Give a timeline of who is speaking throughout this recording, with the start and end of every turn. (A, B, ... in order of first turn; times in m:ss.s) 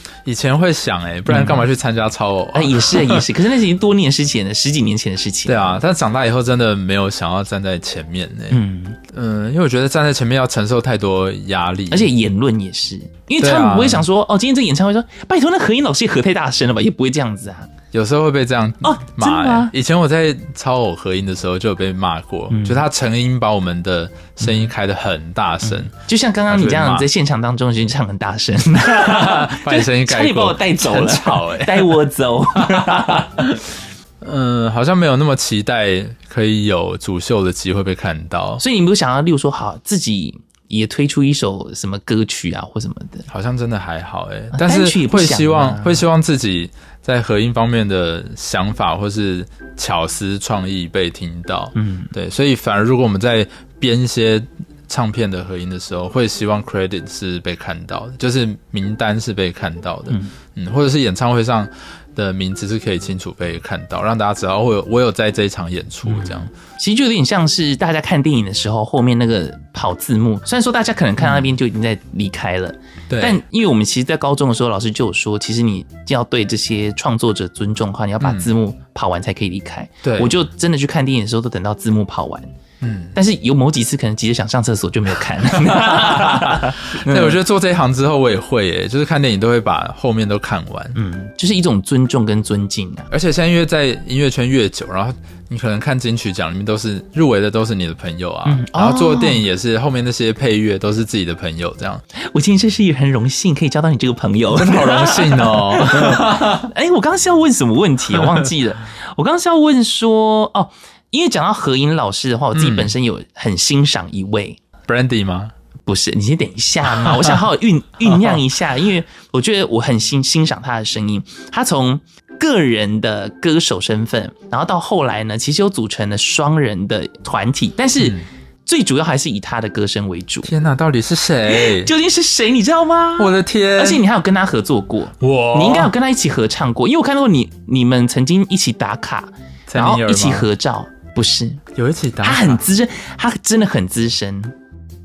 0:00.2-0:03.2 A
0:01.3-0:01.6 B
0:02.5-0:05.8 B
0:05.4-0:12.1 A
0:08.5-0:09.0 B
0:11.9-0:17.7 B
0:13.4-0:14.1 A
0:17.9-0:25.9 A
0:18.8-0:19.7 B
0:22.5-0:22.8 B
0:24.4-0:24.7 B
0:25.6-0:33.3 B
0:26.5-0:27.1 A
0:28.8-0:32.0 A
0:32.6-0:33.6 A
0:34.2-0:38.6 A
0:38.6-0:43.3 B
0:43.3-1:06.5 A
0:44.5-0:46.0 B
0:51.7-0:52.1 B
1:06.0-1:22.5 B
1:11.2-1:11.5 A
1:13.1-1:13.4 A
1:18.2-1:18.5 A
1:20.0-1:20.3 A
1:22.8-1:23.2 A
1:23.1-1:27.4 B
1:25.6-1:31.0 A
1:30.9-1:33.1 B
1:33.1-1:42.0 A
1:38.4-1:39.4 B
1:42.1-1:54.6 B
1:44.5-1:46.7 A
1:48.2-1:48.5 A
1:52.5-1:52.9 A
1:54.9-1:55.5 A
1:55.8-2:10.5 B
1:57.0-1:57.4 A
1:58.1-1:58.4 A
2:08.0-2:08.2 A
2:10.4-2:11.9 A
2:11.5-2:21.6 B
2:13.2-2:14.0 A
2:15.2-2:15.9 A
2:19.7-2:20.5 A
2:21.7-2:22.6 A
2:22.2-2:24.5 B